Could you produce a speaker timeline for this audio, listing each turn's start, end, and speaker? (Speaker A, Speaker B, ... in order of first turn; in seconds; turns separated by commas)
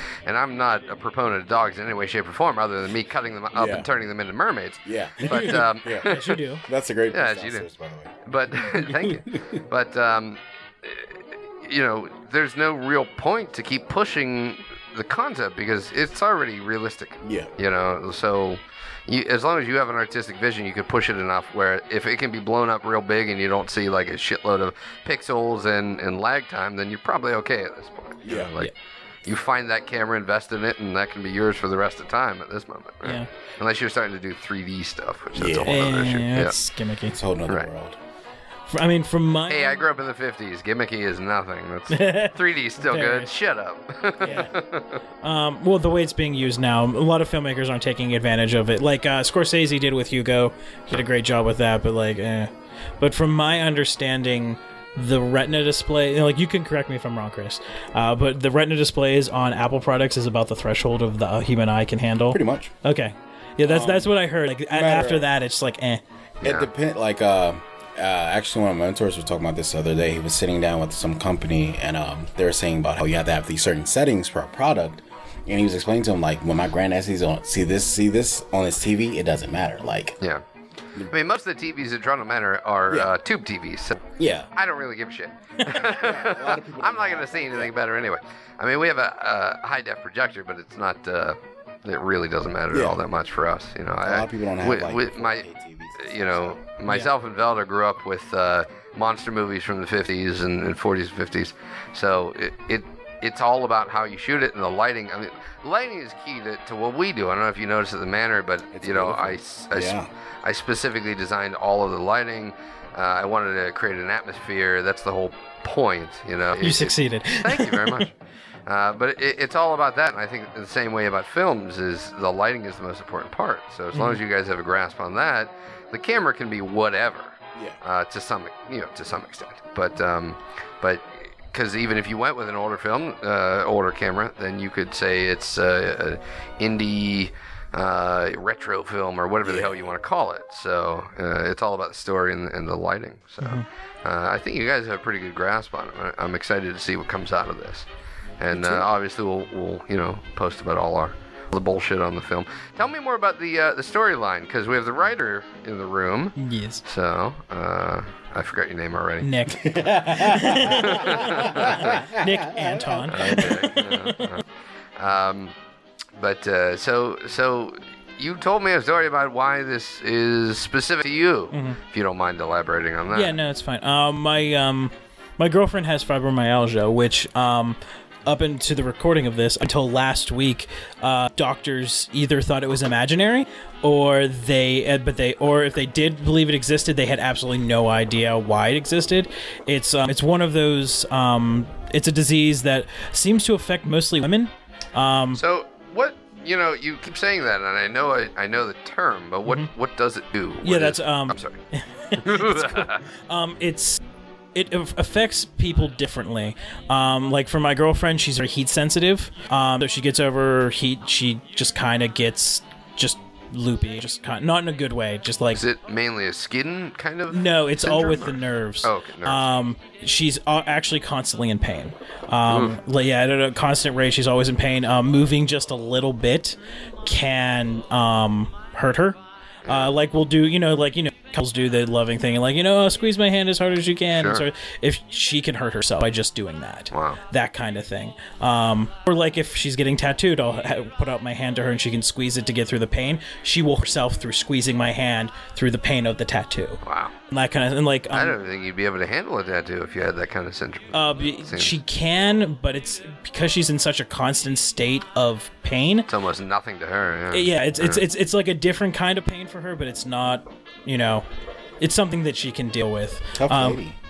Speaker A: 0.2-6.4, Speaker B: 3.5-3.9, Speaker B: 4.8-6.1, Speaker C: 6.0-6.6, Speaker B: 6.6-8.1, Speaker A: 7.1-7.7, Speaker A: 8.2-28.7, Speaker B: 8.7-9.6, Speaker B: 17.2-17.5, Speaker B: 28.2-28.5, Speaker A: 29.2-36.5, Speaker C: 33.0-33.3, Speaker B: 35.4-35.8, Speaker C: 35.5-37.2, Speaker B: 37.0-38.0, Speaker C: 38.7-39.9, Speaker A: 39.5-45.0, Speaker C: 41.9-43.3, Speaker B: 44.2-44.5, Speaker C: 44.2-44.5, Speaker C: 45.2-66.0, Speaker B: 62.3-62.7, Speaker B: 63.6-64.1, Speaker B: 64.7-65.3, Speaker A: 66.4-66.7, Speaker B: 66.4-80.2, Speaker A: 81.1-95.4, Speaker B: 84.2-84.5, Speaker B: 85.7-87.7, Speaker B: 92.7-93.0, Speaker B: 94.0-96.6, Speaker A: 96.0-118.1, Speaker B: 108.7-110.1, Speaker C: 116.6-118.1, Speaker A: 118.7-147.9, Speaker C: 123.9-124.2, Speaker B: 139.4-139.9, Speaker A: 148.4-159.3, Speaker B: 148.5-148.9, Speaker C: 156.4-156.8, Speaker C: 159.2-164.4, Speaker B: 159.6-163.8, Speaker A: 160.9-161.9, Speaker A: 163.1-164.4, Speaker A: 165.0-165.5, Speaker A: 166.2-173.3, Speaker C: 171.5-171.8, Speaker C: 173.1-195.4, Speaker A: 195.3-201.6, Speaker C: 199.4-199.7, Speaker C: 200.6-204.0, Speaker A: 202.2-203.0, Speaker C: 204.5-215.6, Speaker A: 215.5-219.5, Speaker C: 217.3-248.4, Speaker A: 222.5-222.8, Speaker A: 229.6-229.9, Speaker A: 234.1-234.4, Speaker A: 236.9-237.2, Speaker A: 246.8-247.1, Speaker A: 248.1-251.8, Speaker C: 250.9-256.1, Speaker A: 256.1-258.0, Speaker C: 257.3-261.2, Speaker C: 261.8-263.8, Speaker B: 263.3-264.0